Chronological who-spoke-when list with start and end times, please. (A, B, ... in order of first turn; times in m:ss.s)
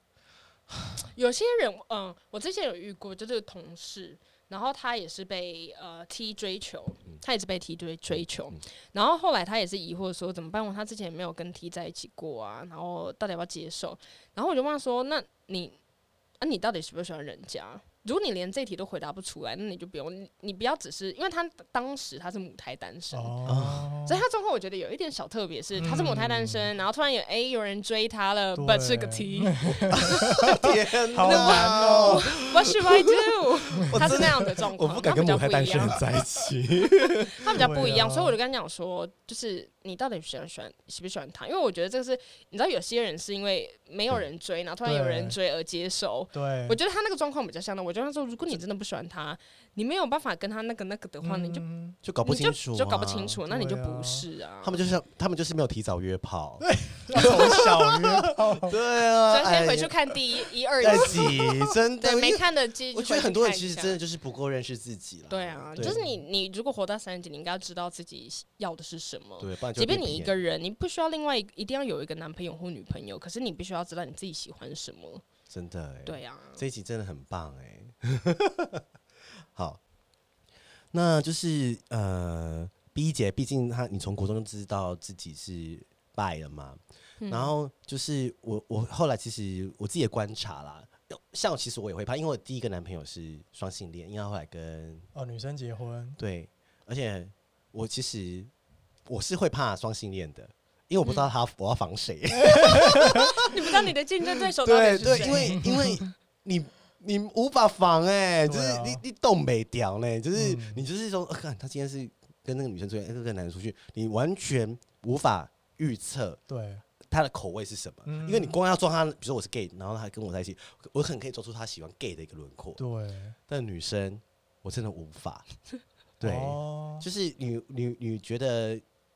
0:01.1-0:15.8 A
0:16.4-0:23.5 A
0:23.1-0:24.2 B
0:23.4-0:23.9 C
0:24.0-0:36.0 A
0:25.8-0:26.7 B
0:28.6-0:32.3 B
0:29.9-0:33.1 C
0:33.8-0:37.4 C
0:33.9-0:34.2 B
0:37.3-0:51.7 A
0:37.5-0:38.4 B
0:44.8-0:45.3 B
0:46.3-0:46.8 B
0:51.2-0:52.0 B
0:52.0-0:53.4 C
0:52.2-0:54.8 A
0:53.5-0:54.2 B
0:54.6-0:59.9 C
0:56.6-0:58.8 B
0:57.2-0:57.6 A
0:59.3-1:01.3 A
1:00.8-1:06.0 C
1:01.0-1:01.6 B
1:02.0-1:04.0 A
1:05.3-1:15.2 A
1:05.8-1:06.2 B
1:09.4-1:10.3 C
1:15.5-1:18.8 C
1:16.0-1:16.6 A
1:19.5-1:19.8 C
1:20.9-1:35.1 C
1:27.2-1:27.5 A
1:35.1-1:36.2 B
1:36.2-1:38.5 C
1:39.1-1:43.8 C
1:42.3-1:43.4 B
1:43.4-1:45.7 A
1:44.6-1:56.4 C
1:45.0-1:46.0 B
1:48.4-1:49.0 B
1:50.3-1:50.8 B
1:56.5-1:56.8 B
1:57.0-2:02.8 C
1:58.0-1:58.6 B
2:02.8-2:03.4 B
2:03.5-2:05.4 C
2:06.2-2:08.8 C
2:06.2-2:07.0 B